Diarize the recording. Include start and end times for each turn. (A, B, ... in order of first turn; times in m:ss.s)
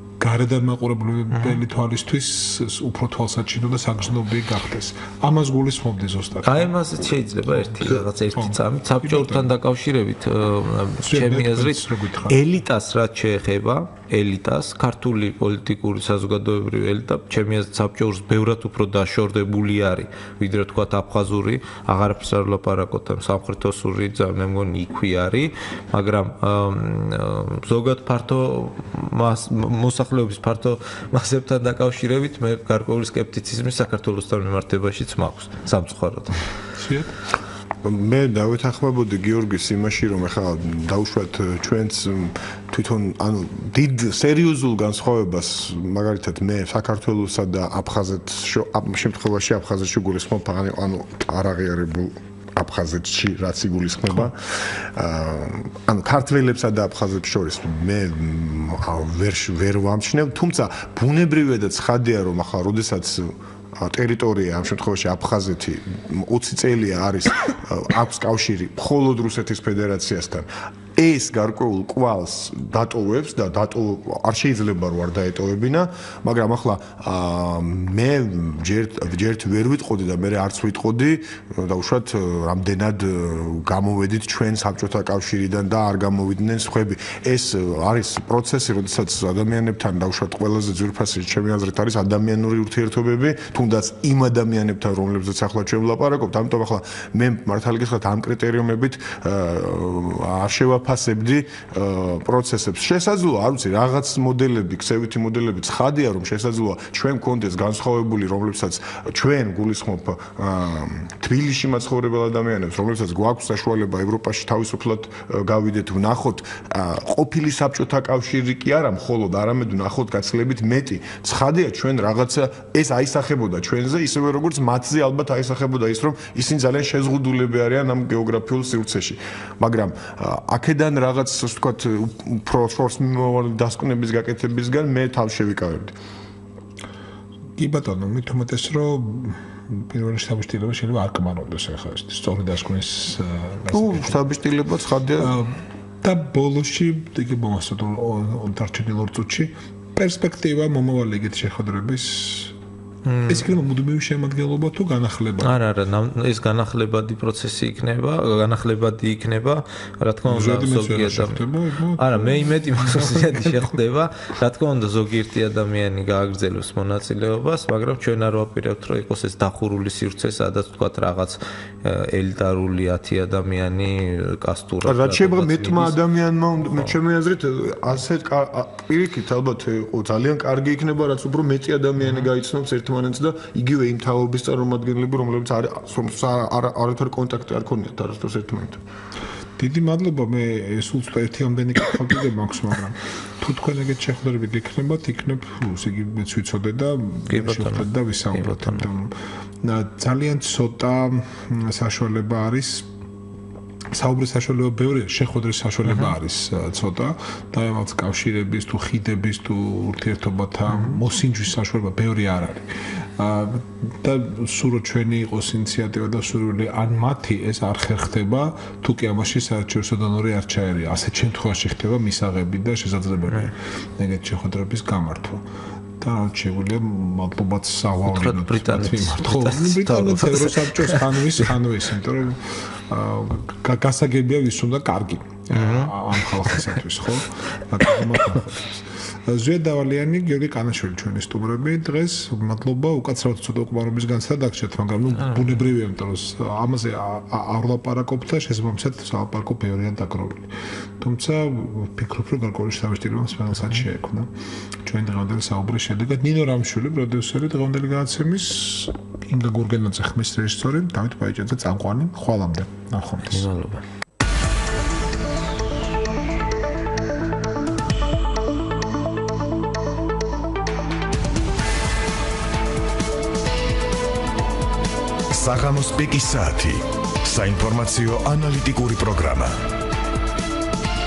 0:00.2-0:06.8 A
0:01.3-0:01.6 B
0:06.4-0:36.4 B
0:07.5-0:09.5 A
0:11.0-0:12.4 A
0:36.8-0:37.1 A
0:37.8-2:15.9 C
2:17.6-2:24.2 A
2:23.7-2:25.4 C
2:25.2-2:32.5 A
2:33.0-2:33.5 B
2:33.3-2:35.6 A
2:35.4-2:41.4 B
2:40.2-2:43.7 A
2:42.0-2:56.0 B
2:54.8-3:08.8 C
3:09.6-3:22.9 A
3:17.3-3:18.9 B
3:23.9-3:45.4 A
3:46.0-4:14.3 A
3:48.1-3:51.2 B
3:55.5-3:56.7 B
4:14.8-4:23.5 A
4:23.3-4:23.8 B
4:35.3-4:39.6 D